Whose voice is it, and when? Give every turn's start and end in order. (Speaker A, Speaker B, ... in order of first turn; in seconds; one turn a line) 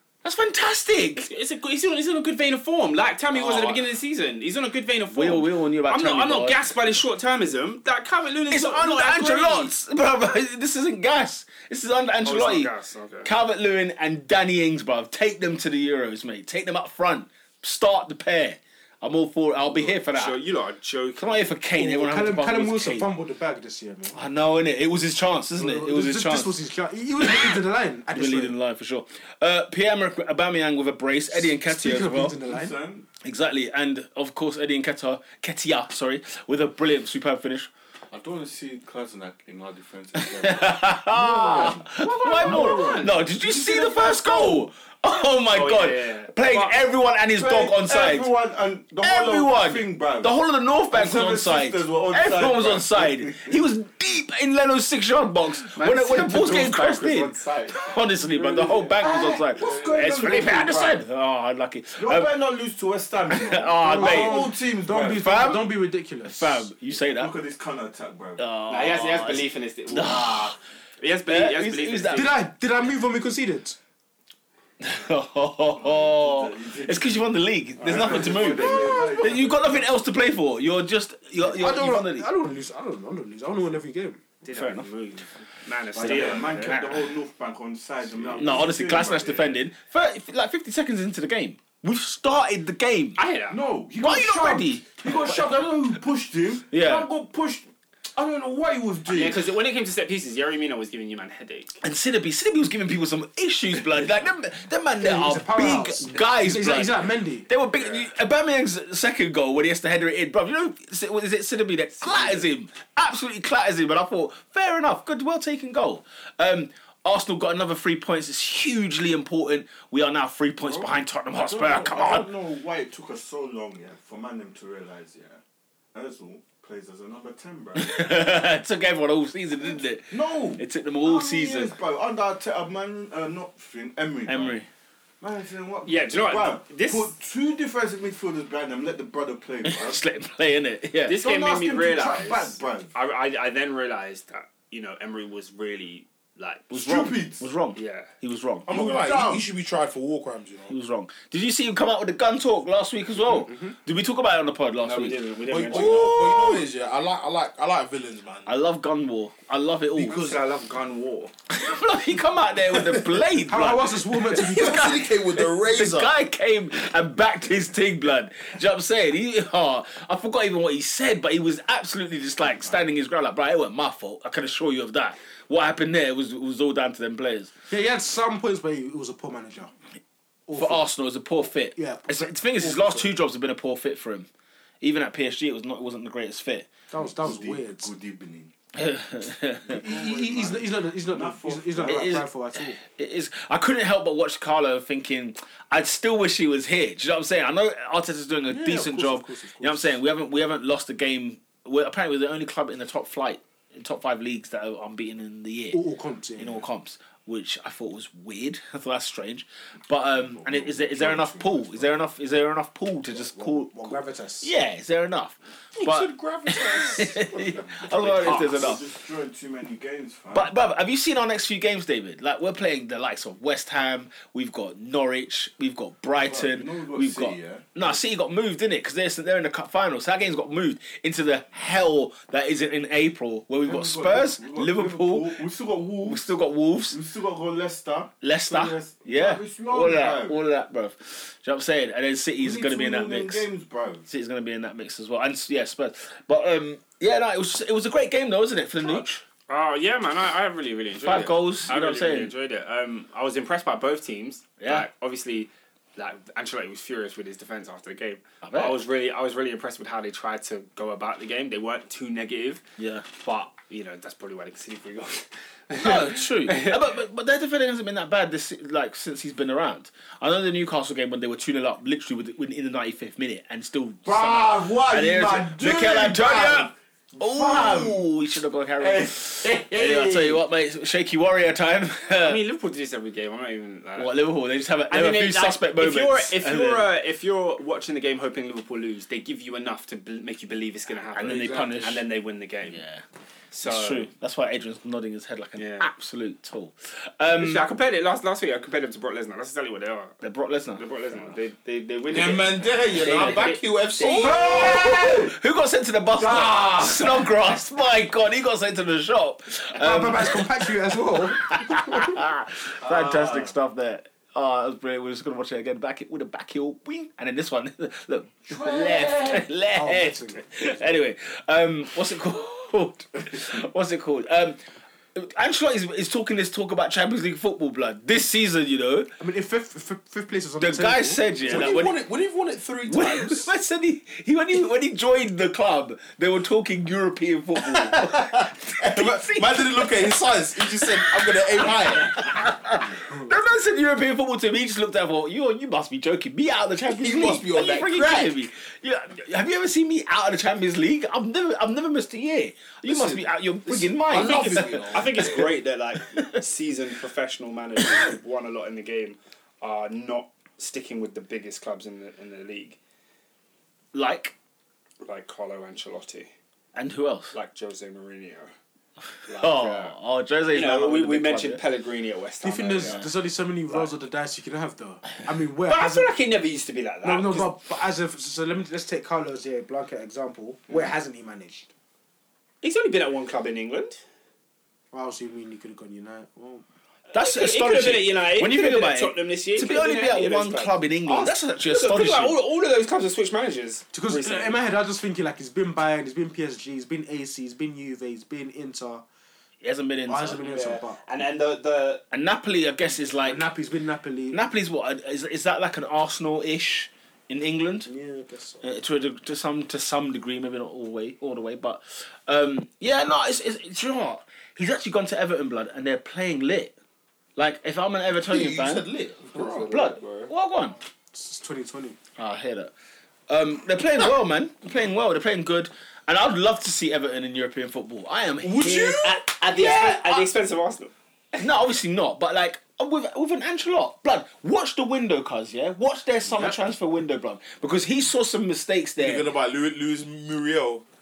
Speaker A: 0.2-1.3
Speaker B: 1.2-9.7
Speaker A: 3.3-3.8
Speaker A: 5.1-6.6
Speaker A: 8.5-12.7
Speaker B: 12.2-13.3
Speaker A: 13.2-20.4
Speaker B: 19.7-21.5
Speaker A: 21.2-23.1
Speaker C: 21.8-24.2
Speaker A: 24.1-26.6
Speaker C: 25.6-28.6
Speaker A: 27.2-32.4
Speaker C: 31.3-32.8
Speaker D: 32.3-33.1
Speaker A: 33.2-37.7
Speaker D: 38.1-43.4
Speaker A: 40.2-48.3
Speaker B: 42.0-44.6
Speaker B: 45.5-46.8
Speaker D: 47.3-50.4
Speaker A: 49.0-62.3
Speaker D: 50.9-53.6
Speaker B: 55.7-57.4
Speaker D: 56.4-61.0
Speaker D: 62.0-65.5
Speaker A: 63.3-64.5
Speaker C: 63.8-66.7
Speaker A: 65.2-67.3
Speaker D: 67.0-68.5
Speaker A: 68.4-70.5
Speaker B: 68.7-70.4
Speaker D: 70.0-70.5
Speaker B: 71.0-72.4
Speaker A: 71.3-72.3
Speaker C: 72.1-73.8
Speaker A: 74.8-82.3
Speaker D: 75.8-77.2
Speaker D: 77.8-79.9
Speaker C: 78.6-79.1
Speaker C: 81.4-84.2
Speaker B: 84.4-86.9
Speaker A: 84.5-84.9
Speaker D: 85.9-89.5
Speaker A: 86.0-87.1
Speaker A: 88.4-93.2
Speaker B: 93.2-93.6
Speaker D: 93.5-99.5
Speaker A: 94.0-95.7
Speaker A: 96.7-97.1
Speaker B: 99.1-101.8
Speaker A: 101.8-122.3
Speaker C: 105.0-107.5
Speaker B: 112.0-112.4
Speaker D: 120.6-125.4
Speaker D: 125.9-127.9
Speaker A: 127.8-131.8
Speaker D: 130.1-134.6
Speaker A: 134.3-134.7
Speaker D: 135.2-140.0
Speaker B: 135.9-137.1
Speaker A: 139.7-141.2
Speaker B: 141.1-146.9
Speaker D: 141.2-142.9
Speaker A: 146.7-148.8
Speaker D: 146.7-147.4
Speaker B: 147.8-148.1
Speaker E: 148.7-150.8
Speaker D: 148.7-149.5
Speaker A: 150.7-156.2
Speaker B: 154.8-156.5
Speaker E: 155.5-158.6
Speaker A: 158.5-160.4
Speaker D: 160.0-161.3
Speaker A: 161.5-177.5
Speaker C: 163.5-164.9
Speaker E: 164.4-166.1
Speaker C: 177.7-179.7
Speaker C: 180.5-180.9
Speaker A: 180.6-184.3
Speaker C: 181.8-183.1
Speaker A: 184.8-186.7
Speaker C: 186.9-187.9
Speaker D: 186.9-188.5
Speaker A: 188.8-189.8
Speaker C: 189.7-192.8
Speaker D: 189.7-192.2
Speaker A: 191.8-205.8
Speaker C: 198.5-200.0
Speaker C: 205.7-206.6
Speaker A: 206.4-218.8
Speaker D: 210.1-212.0
Speaker C: 213.1-214.5
Speaker E: 215.8-218.5
Speaker D: 217.6-220.5
Speaker A: 220.3-235.5
Speaker D: 226.2-228.0
Speaker D: 233.7-236.3
Speaker A: 236.0-237.0
Speaker D: 236.9-240.4
Speaker A: 238.2-243.5
Speaker D: 242.4-244.1
Speaker A: 244.1-249.2
Speaker B: 249.5-266.9
Speaker A: 251.0-252.3
Speaker A: 258.4-258.8
Speaker A: 262.8-263.1
Speaker A: 265.7-282.4
Speaker D: 274.1-278.0
Speaker D: 278.8-280.4
Speaker B: 282.2-284.1
Speaker A: 284.0-286.9
Speaker B: 284.9-292.8
Speaker A: 291.1-292.1
Speaker A: 292.7-293.0
Speaker B: 293.5-294.1
Speaker A: 293.6-297.7
Speaker B: 295.6-295.9
Speaker B: 297.3-300.2
Speaker A: 300.2-300.8
Speaker B: 300.8-304.3
Speaker E: 302.1-305.0
Speaker A: 303.0-310.7
Speaker D: 304.1-305.3
Speaker D: 306.2-307.1
Speaker C: 309.8-311.7
Speaker A: 311.3-324.6
Speaker D: 312.8-313.5
Speaker C: 319.7-320.5
Speaker A: 325.1-329.1
Speaker C: 329.2-331.8
Speaker A: 330.6-332.0
Speaker E: 331.5-333.5
Speaker A: 332.9-355.5
Speaker E: 337.7-338.1
Speaker E: 338.6-342.3
Speaker E: 346.9-348.4
Speaker E: 352.9-355.5
Speaker B: 354.1-362.8
Speaker A: 363.9-364.3
Speaker B: 365.0-366.3
Speaker A: 366.8-367.3
Speaker B: 367.3-368.5
Speaker B: 369.3-369.9
Speaker A: 369.3-371.6
Speaker B: 370.5-373.1
Speaker C: 372.4-376.1
Speaker B: 375.7-377.6
Speaker C: 377.0-381.7
Speaker B: 382.6-384.0
Speaker C: 384.9-386.6
Speaker A: 387.1-392.4
Speaker B: 387.1-394.6
Speaker C: 393.9-399.0
Speaker A: 399.6-400.4
Speaker C: 400.1-401.0
Speaker B: 400.4-402.0
Speaker A: 402.1-403.4
Speaker C: 403.2-404.4
Speaker A: 404.3-407.9
Speaker C: 407.9-408.7
Speaker A: 408.6-416.7
Speaker A: 417.4-418.9
Speaker E: 418.2-419.7
Speaker B: 419.3-420.3
Speaker A: 419.7-420.8
Speaker C: 421.1-422.0
Speaker A: 422.2-422.7
Speaker A: 423.3-430.3
Speaker E: 428.4-429.0
Speaker B: 428.6-431.4
Speaker A: 431.4-439.3
Speaker E: 439.0-440.8